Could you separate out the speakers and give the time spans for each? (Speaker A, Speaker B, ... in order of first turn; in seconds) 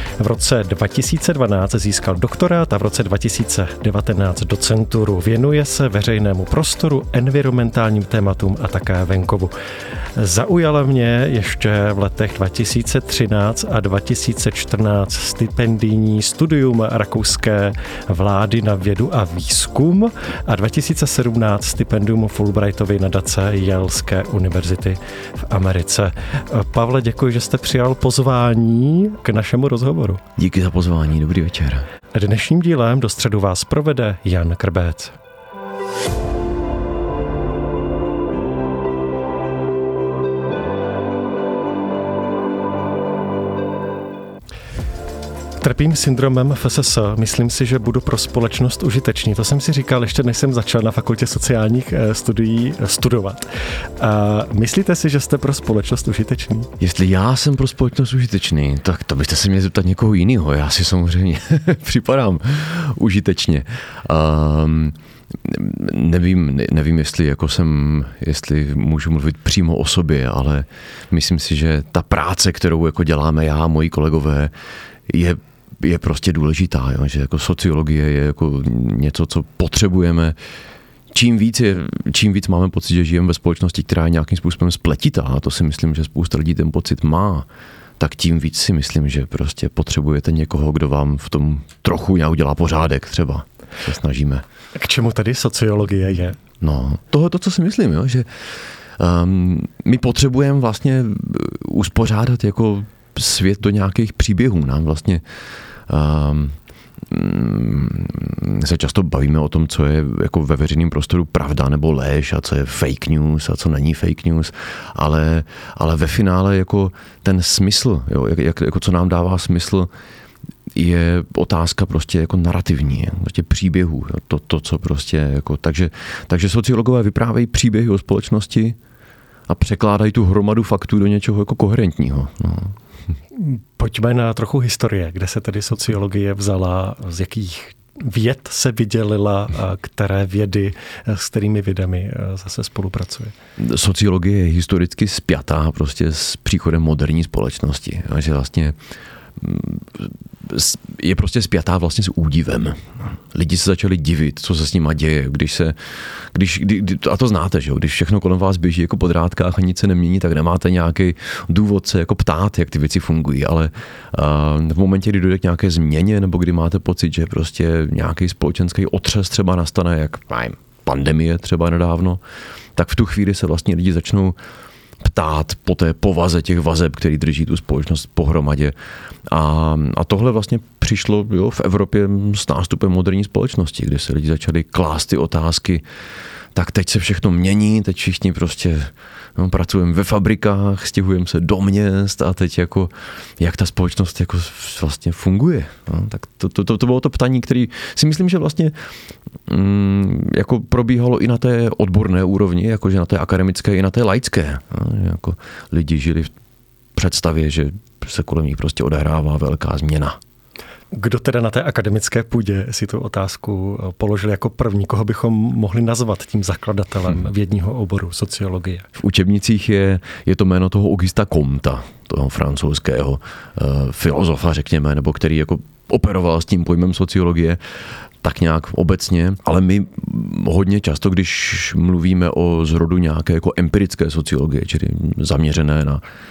Speaker A: 0.2-30.2, 32.1-35.2, 45.6-56.7, 94.8-96.4, 133.3-143.3, 210.9-218.9
Speaker B: 30.4-31.9, 56.8-74.5, 75.1-80.4, 81.1-87.5, 88.0-94.4, 96.6-105.2, 105.9-119.9, 120.7-128.8, 129.5-132.8, 143.6-148.8, 149.4-172.2, 172.8-174.3, 175.0-178.8, 179.2-185.8, 186.5-198.9, 199.5-206.3, 206.9-210.2, 219.0-227.6, 228.2-236.0